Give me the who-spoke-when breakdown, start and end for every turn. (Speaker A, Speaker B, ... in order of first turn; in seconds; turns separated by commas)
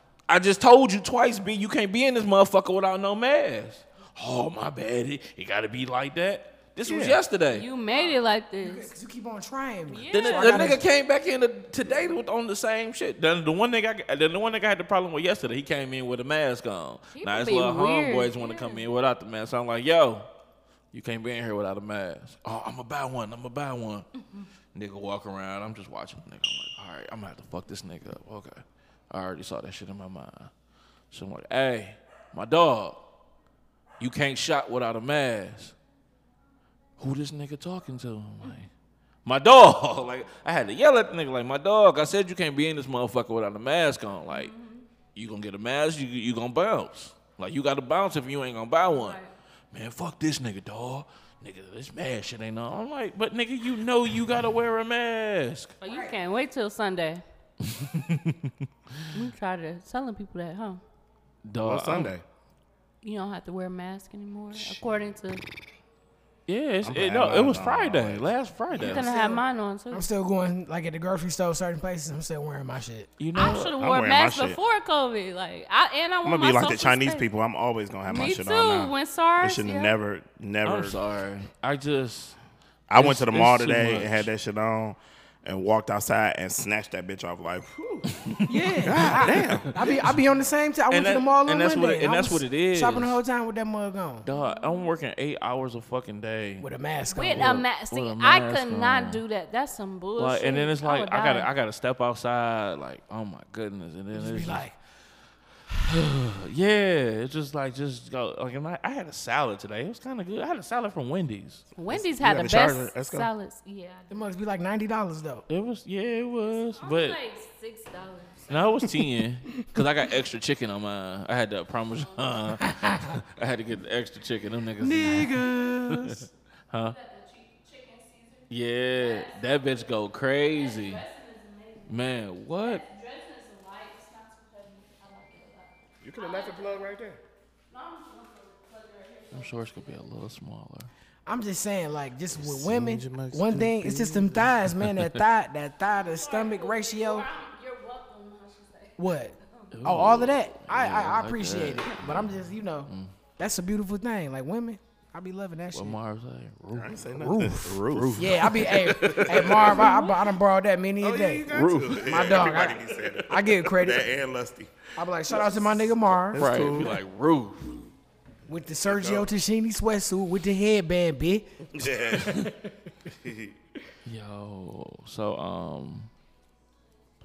Speaker A: 0.3-7.7, Speaker B: 6.8-7.2, Speaker C: 7.5-8.9, Speaker D: 7.9-10.8, Speaker C: 9.9-10.7, Speaker A: 10.1-20.3, Speaker C: 17.1-18.9, Speaker A: 20.9-24.1, Speaker A: 24.7-30.5, Speaker A: 31.1-33.0, Speaker A: 34.0-35.7, Speaker A: 37.0-38.7, Speaker A: 39.2-44.5, Speaker C: 44.3-44.9, Speaker A: 45.1-49.2, Speaker C: 48.9-49.3, Speaker A: 49.7-55.7, Speaker C: 55.8-57.2, Speaker D: 55.8-56.1, Speaker A: 57.6-59.1, Speaker C: 59.1-60.8, Speaker A: 61.4-62.1, Speaker B: 61.6-62.2, Speaker C: 63.0-65.4, Speaker A: 66.5-69.1, Speaker B: 66.8-68.3, Speaker D: 68.7-73.1, Speaker C: 68.7-70.1, Speaker A: 73.2-73.7, Speaker C: 73.3-77.2, Speaker B: 73.7-74.6, Speaker B: 76.2-81.0, Speaker C: 78.0-79.9, Speaker A: 80.6-82.3, Speaker B: 82.9-88.2, Speaker A: 82.9-84.3, Speaker A: 88.2-90.1, Speaker D: 88.5-94.3, Speaker B: 88.8-89.7, Speaker A: 90.9-93.2, Speaker A: 94.2-96.7, Speaker C: 94.3-94.9, Speaker D: 96.6-97.6, Speaker C: 97.1-101.5, Speaker A: 97.3-99.2, Speaker A: 100.2-104.6, Speaker D: 104.1-104.7, Speaker A: 105.8-111.7, Speaker C: 111.8-114.2, Speaker B: 111.9-113.3, Speaker D: 114.1-115.4, Speaker A: 115.5-117.2, Speaker C: 116.4-118.7, Speaker A: 118.5-127.0, Speaker C: 122.0-122.6, Speaker D: 122.7-123.1, Speaker D: 124.8-126.3, Speaker C: 126.8-132.0, Speaker A: 128.5-131.0, Speaker A: 131.9-132.8, Speaker C: 132.6-136.9, Speaker B: 136.0-137.2, Speaker C: 137.7-140.0, Speaker A: 139.3-140.9, Speaker D: 141.2-147.3, Speaker B: 142.3-144.5, Speaker A: 144.8-145.1, Speaker C: 145.9-149.7, Speaker D: 149.0-156.0, Speaker A: 149.7-152.3, Speaker A: 152.8-153.1, Speaker A: 155.7-159.8, Speaker B: 156.7-160.0, Speaker D: 157.2-164.1, Speaker C: 159.7-160.2, Speaker B: 161.0-164.8, Speaker A: 161.5-162.4, Speaker D: 164.9-166.4, Speaker B: 165.3-167.0, Speaker A: 166.3-167.8, Speaker D: 168.5-171.5, Speaker B: 168.8-169.3, Speaker B: 171.7-172.5, Speaker B: 173.1-173.5, Speaker A: 174.0-176.1